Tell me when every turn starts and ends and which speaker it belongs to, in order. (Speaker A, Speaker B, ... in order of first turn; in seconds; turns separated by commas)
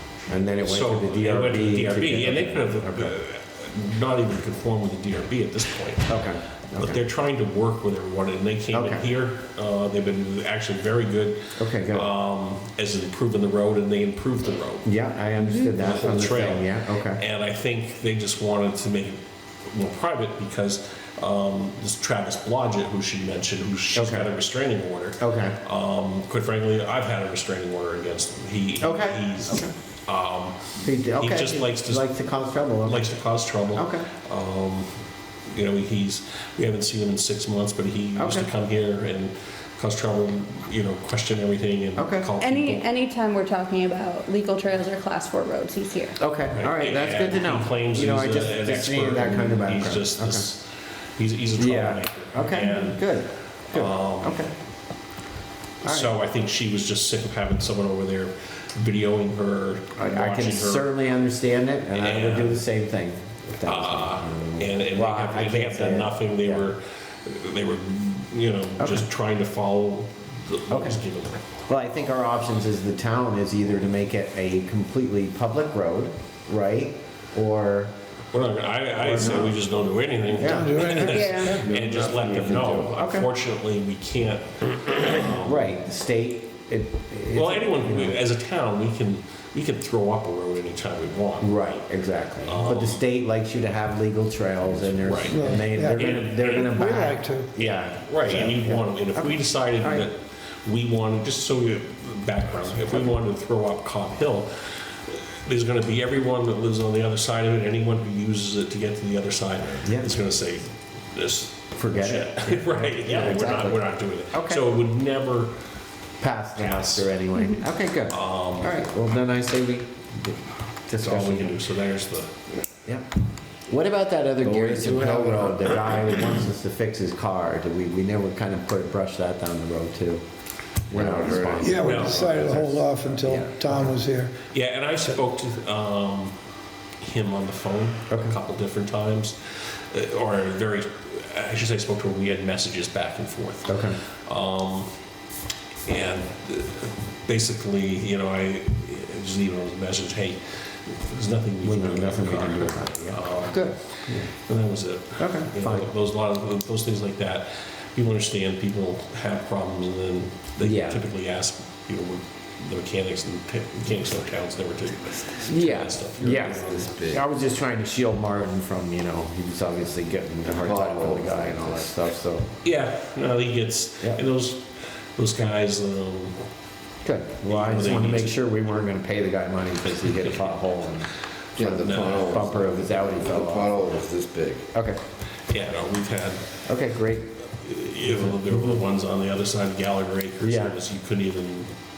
Speaker A: 0.3-3.1, Speaker B: 0.6-6.2, Speaker A: 6.1-7.0, Speaker B: 6.8-14.9, Speaker A: 8.7-9.0, Speaker A: 11.6-12.1, Speaker A: 14.8-17.2, Speaker B: 15.6-30.6, Speaker A: 23.9-24.3, Speaker A: 25.2-25.6, Speaker A: 28.8-29.7, Speaker A: 30.8-33.1, Speaker B: 31.2-32.1, Speaker B: 32.8-34.9, Speaker A: 33.7-34.1, Speaker B: 35.5-42.9, Speaker A: 38.1-38.5, Speaker A: 42.0-42.3, Speaker C: 42.4-46.2, Speaker A: 46.2-50.5, Speaker B: 46.5-53.0, Speaker A: 51.5-54.5, Speaker B: 53.7-54.5, Speaker A: 55.8-56.1, Speaker B: 55.8-60.9, Speaker A: 60.0-66.7, Speaker B: 61.9-62.6, Speaker B: 63.6-71.4, Speaker A: 68.8-69.0, Speaker A: 70.7-71.0, Speaker A: 71.7-77.9, Speaker B: 78.3-85.7, Speaker A: 79.0-79.6, Speaker A: 80.4-83.3, Speaker D: 80.4-81.7, Speaker C: 81.1-81.5, Speaker A: 85.2-88.2, Speaker B: 87.3-91.5, Speaker A: 91.4-100.0, Speaker B: 92.4-93.0, Speaker B: 95.0-96.8, Speaker D: 95.3-97.5, Speaker B: 97.6-115.5, Speaker A: 109.8-110.1, Speaker A: 111.8-114.6, Speaker A: 116.2-121.5, Speaker B: 116.6-117.1, Speaker B: 118.1-118.8, Speaker B: 121.0-122.3, Speaker A: 123.7-130.2, Speaker E: 124.4-125.8, Speaker E: 130.9-132.7, Speaker A: 130.9-132.5, Speaker D: 131.6-134.4, Speaker B: 131.8-132.6, Speaker A: 133.1-133.9, Speaker B: 134.5-136.3, Speaker B: 137.0-144.9, Speaker A: 138.1-138.3, Speaker A: 143.7-144.0, Speaker B: 145.9-167.0, Speaker A: 151.6-154.3, Speaker A: 155.2-155.9, Speaker A: 160.6-161.0, Speaker A: 165.5-172.5, Speaker E: 166.5-167.2, Speaker E: 170.5-171.9, Speaker B: 172.6-176.4, Speaker A: 177.0-183.8, Speaker B: 177.4-178.3, Speaker E: 181.6-184.7, Speaker B: 181.7-182.4, Speaker A: 184.7-185.0, Speaker B: 185.5-186.4, Speaker A: 186.7-187.3, Speaker B: 187.5-191.7, Speaker A: 188.2-188.8, Speaker A: 190.4-190.8